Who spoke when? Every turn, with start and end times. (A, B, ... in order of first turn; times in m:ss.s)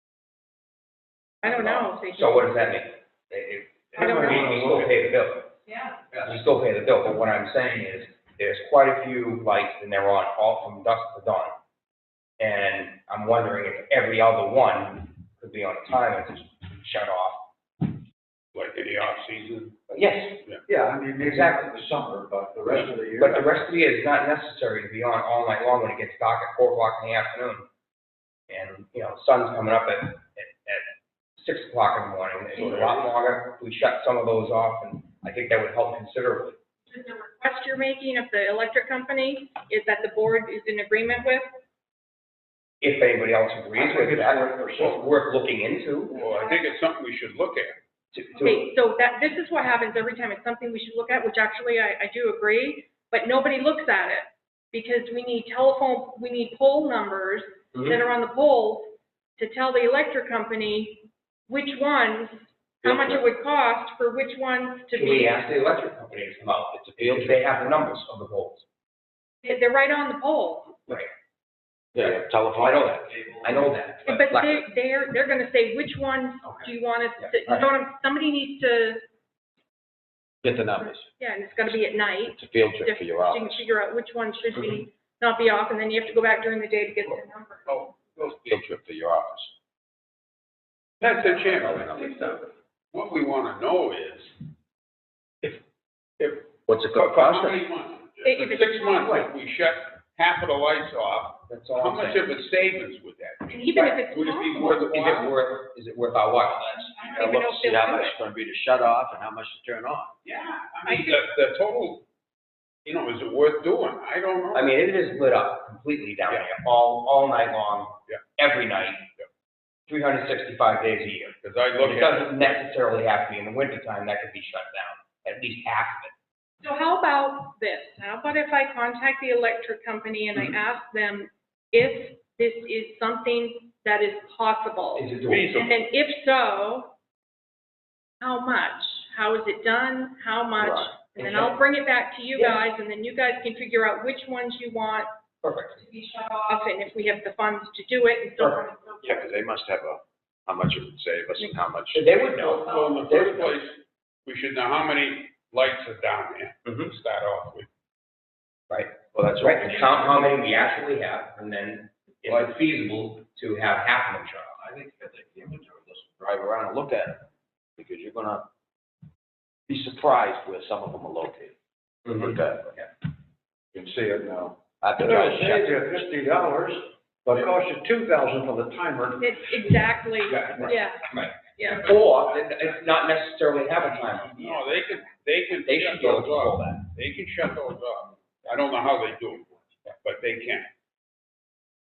0:01.4-0:02.5 A
0:01.4-0:05.5 B
0:04.0-0:04.6 A
0:04.0-0:04.5 C
0:05.7-0:06.0 A
0:06.2-0:11.5 B
0:12.4-0:17.9 B
0:18.5-0:19.8 D
0:19.9-0:20.4 B
0:20.7-0:23.6 C
0:21.2-0:21.6 B
0:23.2-0:27.7 B
0:28.5-0:36.6 B
0:32.6-0:33.1 D
0:36.9-0:41.5 A
0:42.8-0:46.2 B
0:43.8-0:45.1 C
0:46.1-0:46.7 A
0:46.1-0:47.8 D
0:48.1-0:48.6 B
0:48.4-1:05.6 A
1:02.8-1:03.2 E
1:04.9-1:08.6 B
1:06.7-1:07.4 E
1:09.4-1:10.8 A
1:12.0-1:13.5 E
1:12.0-1:14.7 B
1:14.1-1:19.0 A
1:17.2-1:17.6 B
1:20.4-1:21.1 E
1:21.2-1:27.8 A
1:22.3-1:23.6 E
1:27.7-1:28.3 D
1:28.2-1:29.5 E
1:31.0-1:32.3 D
1:31.2-1:32.5 E
1:32.9-1:34.4 D
1:36.2-1:45.4 D
1:36.7-1:37.6 E
1:38.2-1:39.3 A
1:41.5-1:42.2 B
1:43.5-1:44.8 A
1:44.7-1:47.0 B
1:46.9-1:48.2 A
1:47.1-1:50.1 E
1:50.2-1:52.0 D
1:50.9-1:51.2 A
1:52.9-1:54.8 D
1:54.5-1:59.1 B
1:59.9-2:06.1 B
2:01.4-2:02.6 D
2:06.6-2:16.9 A
2:15.0-2:15.6 B
2:15.3-2:15.7 D
2:18.2-2:25.1 A
2:20.6-2:20.9 E
2:21.2-2:21.6 B
2:22.4-2:22.6 B
2:25.4-2:25.8 B
2:25.8-2:29.2 A
2:29.0-2:32.1 E
2:31.9-2:33.6 B
2:32.4-2:37.7 D
2:36.7-2:36.9 B
2:38.7-2:44.6 B
2:39.1-2:40.5 E
2:42.3-2:42.5 E
2:44.6-2:48.5 E
2:49.7-2:51.6 E
2:52.1-2:52.8 E
2:53.7-2:59.4 C
2:54.8-2:55.7 E
2:59.2-3:01.9 A
3:00.3-3:04.7 B
3:03.8-3:10.7 D
3:05.7-3:06.9 B